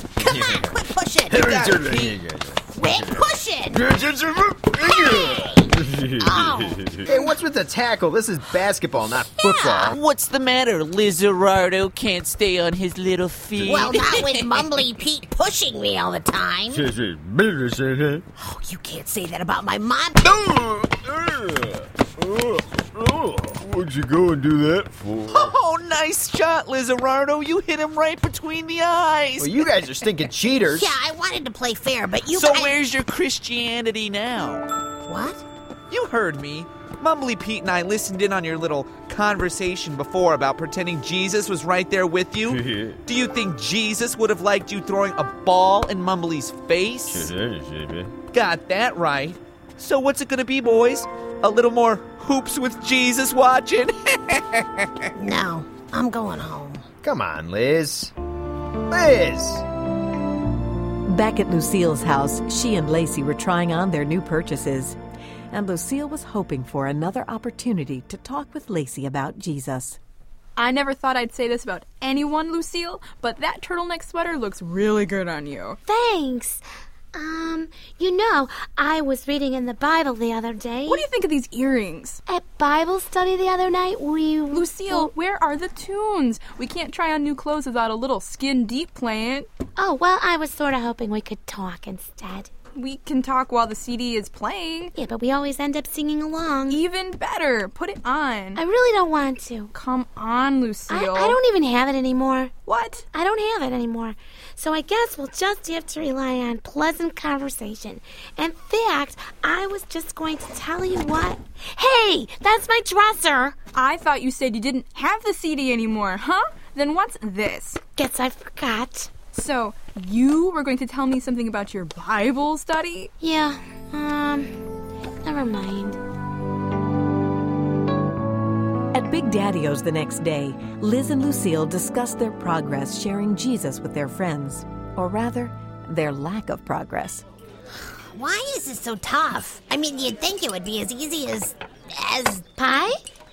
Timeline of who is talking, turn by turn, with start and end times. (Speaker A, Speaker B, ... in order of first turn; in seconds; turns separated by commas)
Speaker A: 0.2-1.6, Speaker B: 0.2-0.6, Speaker B: 1.3-7.1, Speaker C: 1.3-2.2, Speaker A: 2.7-3.8, Speaker A: 4.8-7.4, Speaker D: 7.1-10.0, Speaker A: 9.3-10.0, Speaker C: 9.9-14.7, Speaker A: 13.6-16.8, Speaker B: 16.7-18.2, Speaker A: 18.4-20.2, Speaker B: 20.2-25.5, Speaker C: 25.3-30.0, Speaker D: 29.4-30.9, Speaker A: 30.7-32.7, Speaker C: 32.3-34.6, Speaker A: 35.0-35.4, Speaker C: 35.9-47.3, Speaker B: 42.5-43.0, Speaker B: 47.1-48.1, Speaker C: 48.3-55.0, Speaker A: 55.1-56.9, Speaker D: 57.0-58.1, Speaker D: 58.9-59.6, Speaker E: 61.1-65.0, Speaker E: 65.5-70.0, Speaker F: 70.5-75.8, Speaker G: 75.8-76.6, Speaker G: 77.1-81.0, Speaker F: 80.8-82.2, Speaker G: 82.3-85.1, Speaker F: 84.5-89.5, Speaker G: 89.8-92.5, Speaker F: 92.7-94.9, Speaker G: 95.0-96.8, Speaker F: 96.7-98.6, Speaker G: 98.5-99.7, Speaker F: 99.7-101.4, Speaker G: 100.9-102.5, Speaker F: 102.7-103.0, Speaker G: 103.1-113.6, Speaker F: 113.7-117.8, Speaker G: 118.0-119.1, Speaker F: 119.3-123.1, Speaker G: 123.2-124.5, Speaker G: 125.2-126.0, Speaker E: 128.9-137.2, Speaker A: 137.8-142.5, Speaker G: 142.6-143.0